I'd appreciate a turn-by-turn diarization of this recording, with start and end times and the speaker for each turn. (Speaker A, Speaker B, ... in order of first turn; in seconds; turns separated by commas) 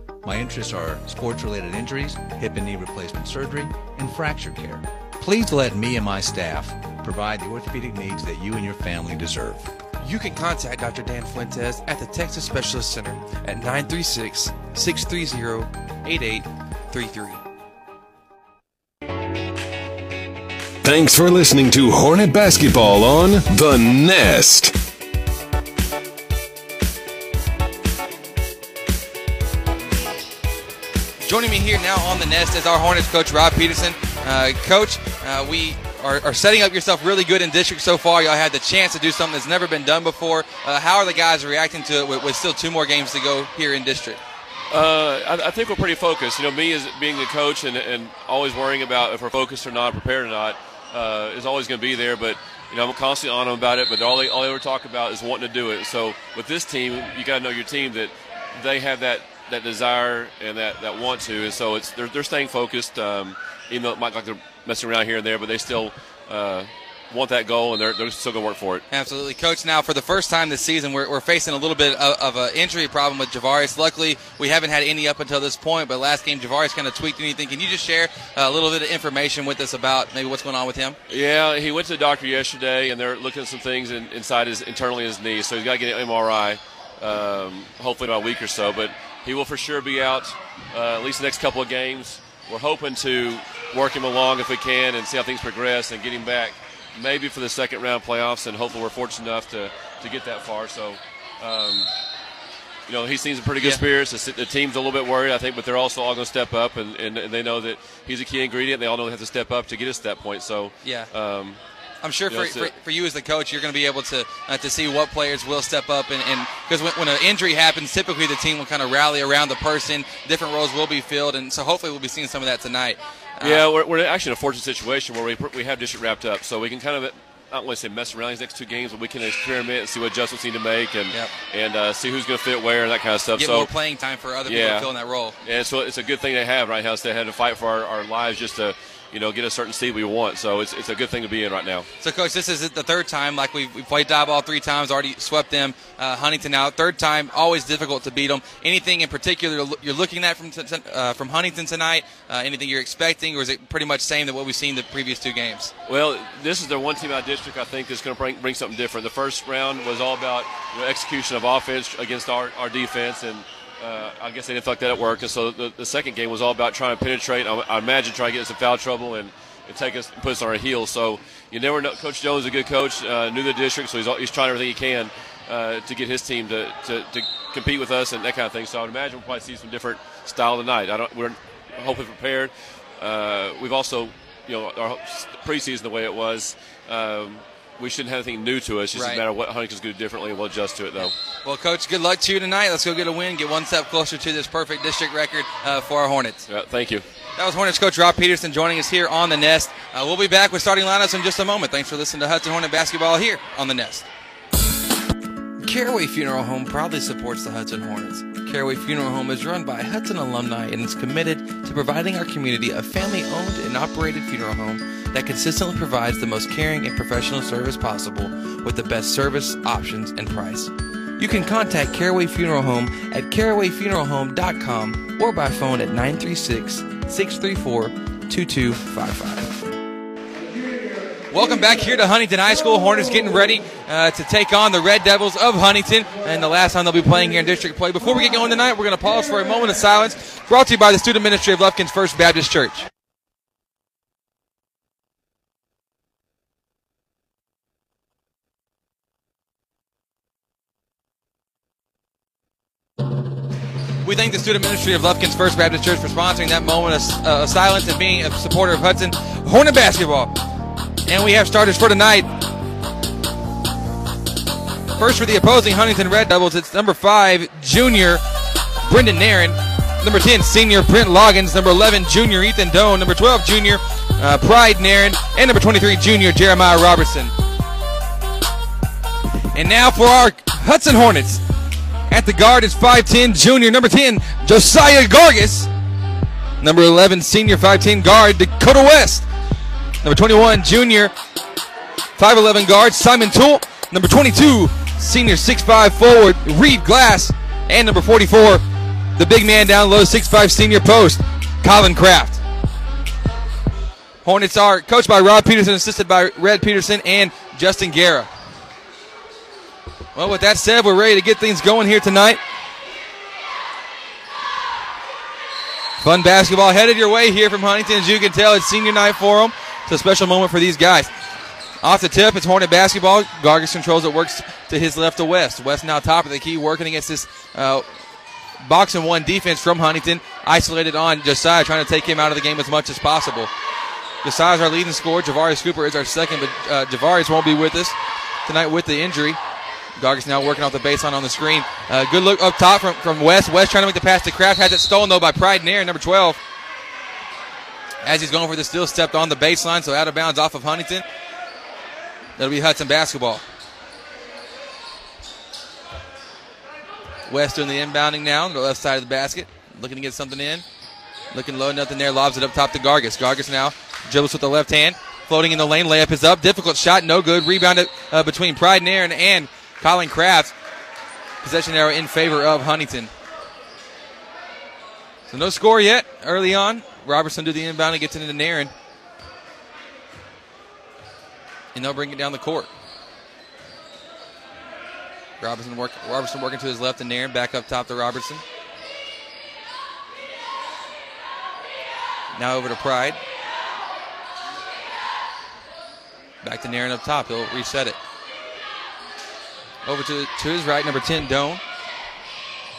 Speaker A: 0.2-9.7, Speaker B: 10.0-17.4, Speaker C: 20.8-24.7, Speaker D: 31.2-44.2, Speaker E: 44.7-68.8, Speaker D: 68.9-81.0, Speaker E: 81.1-101.9, Speaker E: 102.9-111.6, Speaker D: 110.8-111.1, Speaker D: 112.0-123.6, Speaker E: 112.3-112.7, Speaker E: 123.4-133.7, Speaker D: 133.4-135.3, Speaker E: 134.5-134.9, Speaker E: 135.4-141.9, Speaker D: 142.0-155.7, Speaker E: 155.9-191.1, Speaker D: 188.9-189.2, Speaker D: 191.4-196.4, Speaker E: 196.5-197.0, Speaker D: 197.3-204.1, Speaker B: 205.6-229.6, Speaker D: 231.3-242.9, Speaker D: 254.0-260.4, Speaker D: 261.1-262.3, Speaker D: 264.9-268.2, Speaker D: 268.9-277.3, Speaker D: 279.5-281.4, Speaker D: 282.1-285.7, Speaker D: 286.6-289.3, Speaker D: 290.0-291.1, Speaker D: 292.2-298.6, Speaker D: 299.2-302.4, Speaker D: 304.2-308.3, Speaker D: 310.1-312.4, Speaker D: 316.0-321.1, Speaker D: 321.8-327.9, Speaker D: 328.6-333.5, Speaker D: 334.2-339.4, Speaker D: 340.0-346.4, Speaker D: 348.0-351.0, Speaker D: 352.4-353.4, Speaker D: 357.3-360.6, Speaker D: 361.3-370.5, Speaker D: 371.4-373.1, Speaker D: 375.3-378.7, Speaker D: 381.7-382.7, Speaker D: 385.4-388.4, Speaker D: 392.3-393.2, Speaker D: 396.4-398.0, Speaker D: 399.8-401.6